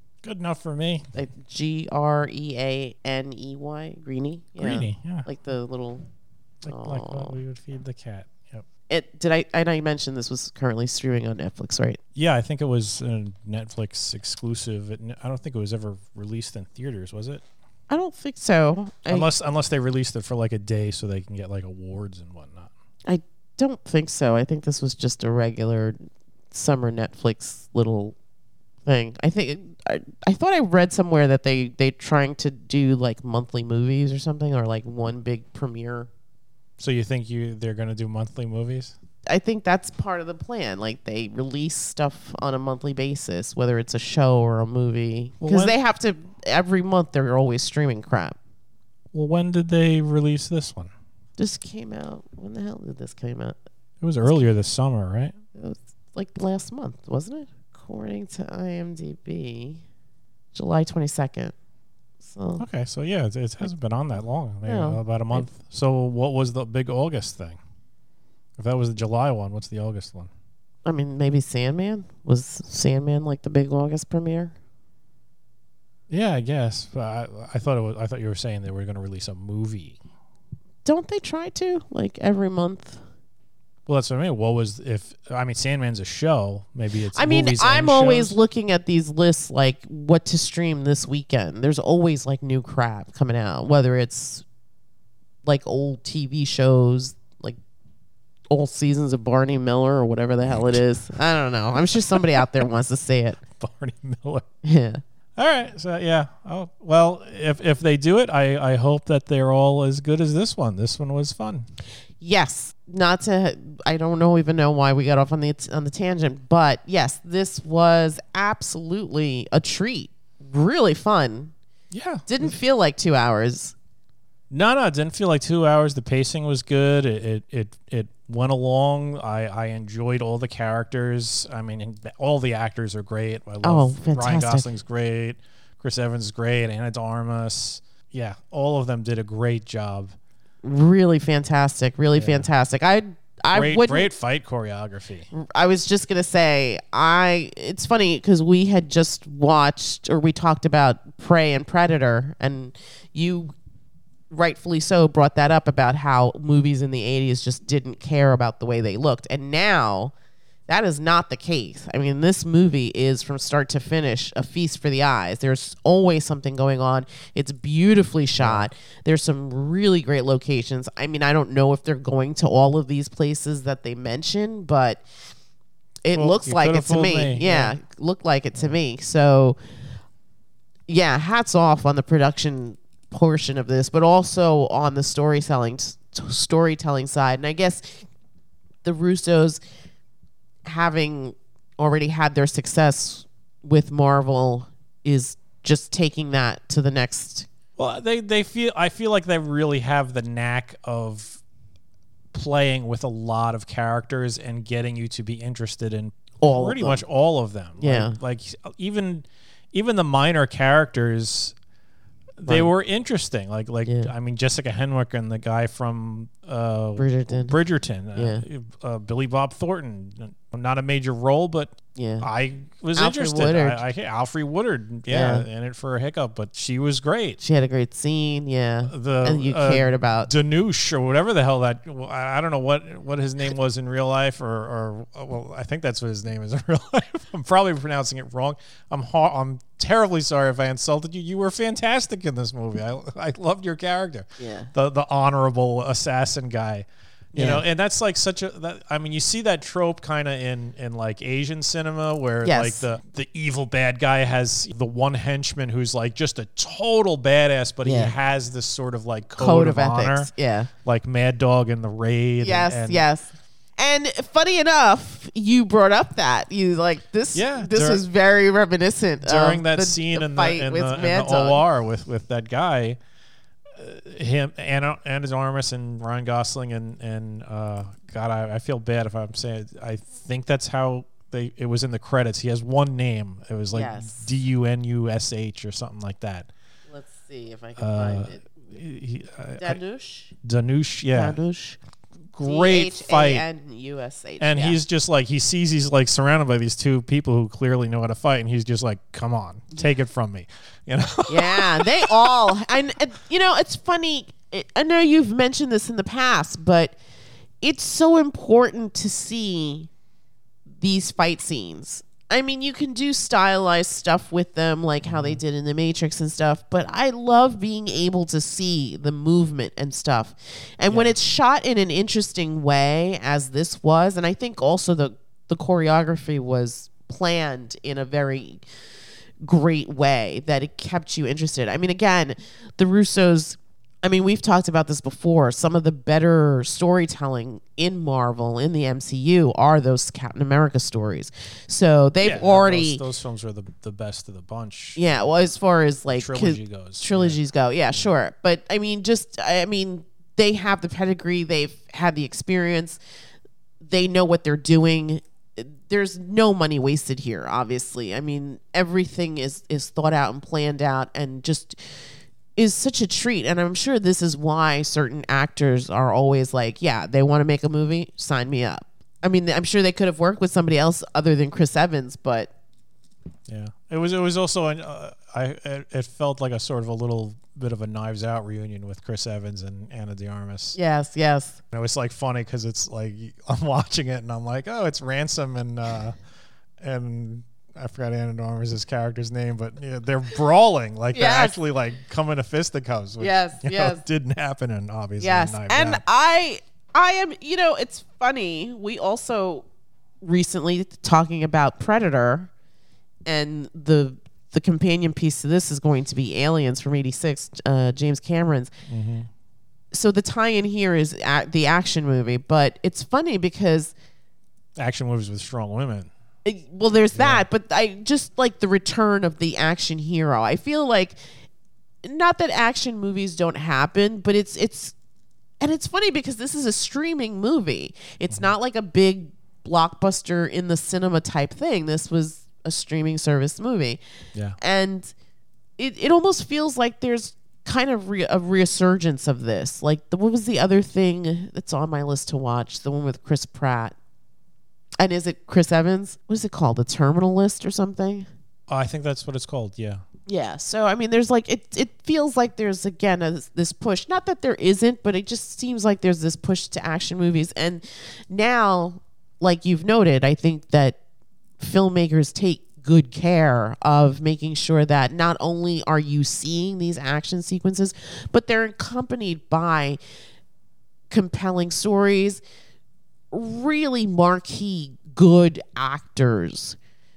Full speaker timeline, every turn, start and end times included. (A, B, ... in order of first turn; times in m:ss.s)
0:00.2-0:01.1 A
0:01.1-0:06.0 B
0:04.6-0:05.3 A
0:06.6-0:08.6 A
0:06.7-0:07.4 B
0:08.9-0:12.0 B
0:12.2-0:17.4 A
0:17.9-0:19.3 B
0:19.1-0:22.7 A
0:23.0-0:26.0 B
0:26.5-0:28.2 B
0:28.8-0:36.1 B
0:36.8-0:39.0 A
0:39.3-0:48.4 B
0:45.4-0:45.7 A
0:49.1-0:50.9 A
0:51.4-0:53.6 B
0:54.0-0:55.4 A
0:55.6-0:59.8 B
1:00.5-1:01.5 B
1:02.2-1:02.6 B
1:02.6-1:07.6 A
1:04.6-1:05.5 B
1:08.6-1:10.3 A
1:10.8-1:14.6 B
1:16.1-1:20.0 A
1:20.8-1:23.0 B
1:23.9-1:28.4 A
1:27.1-1:34.4 B
1:35.4-1:37.6 B
1:38.5-1:43.4 B
1:40.5-1:40.8 A
1:42.1-1:42.5 A
1:43.6-1:44.5 A
1:44.6-1:45.0 B
1:45.4-1:51.7 A
1:52.2-2:01.5 B
2:01.9-2:02.5 A
2:02.3-2:03.8 B
2:04.5-2:20.2 A
2:13.6-2:14.7 B
2:20.6-2:24.1 B
2:22.2-2:22.5 A
2:23.5-2:25.3 A
2:25.3-2:33.5 B
2:34.3-2:40.1 B
2:40.7-2:55.0 B
2:48.4-2:48.7 A
2:56.0-2:59.6 B
2:56.1-2:57.8 A
3:00.9-3:08.0 B
3:08.8-3:09.6 B
3:10.6-3:17.5 B
3:17.8-3:21.4 A
3:22.3-3:31.6 A
3:26.4-3:27.0 B
3:27.8-3:28.2 B
3:32.4-3:47.4 A
3:33.9-3:34.1 B
3:37.0-3:37.6 B
3:38.2-3:38.4 B
3:42.0-3:42.3 B
3:43.0-3:43.8 B
3:45.1-3:45.5 B
3:47.4-3:50.3 B
3:48.9-4:20.3 A
4:04.4-4:04.7 B
4:07.3-4:07.6 B
4:12.4-4:12.8 B
4:17.8-4:18.2 B
4:19.4-4:20.7 B
4:20.8-4:23.1 A
4:22.4-4:31.6 B
4:27.3-4:28.0 A
4:29.2-4:33.0 A
4:33.7-4:46.5 A
4:43.7-4:44.3 B
4:46.9-4:48.5 B
4:47.8-4:49.8 A
4:49.6-4:50.3 B
4:50.4-4:51.4 A
4:51.1-4:51.8 B
4:52.3-4:53.4 A
4:52.4-4:54.8 B
4:54.4-5:02.6 A
5:01.3-5:07.0 B
5:07.6-5:09.9 B
5:10.8-5:28.6 B
5:15.0-5:15.4 A
5:20.9-5:21.2 A
5:29.4-5:43.0 B
5:42.2-5:45.3 A
5:45.0-5:53.0 B
5:46.2-5:47.4 A
5:53.8-6:01.8 B
6:02.6-6:12.5 B
6:13.5-6:20.8 A
6:20.8-6:21.6 B
6:21.7-6:26.2 A
6:26.8-6:36.0 A
6:31.1-6:31.6 B
6:33.2-6:34.0 B
6:35.2-6:39.7 B
6:40.2-6:42.5 B
6:43.3-6:48.7 B
6:48.9-6:49.3 A
6:49.9-6:53.9 B
6:54.8-6:56.1 A
6:56.4-7:01.2 B
6:57.1-6:57.5 A
7:02.0-7:05.0 B
7:05.6-7:14.0 B
7:14.6-7:15.1 B
7:15.8-7:24.0 B
7:25.0-7:28.3 B
7:28.7-7:30.0 A
7:30.3-7:41.0 B
7:41.6-7:50.0 B
7:51.1-7:52.4 B
7:53.3-7:56.8 B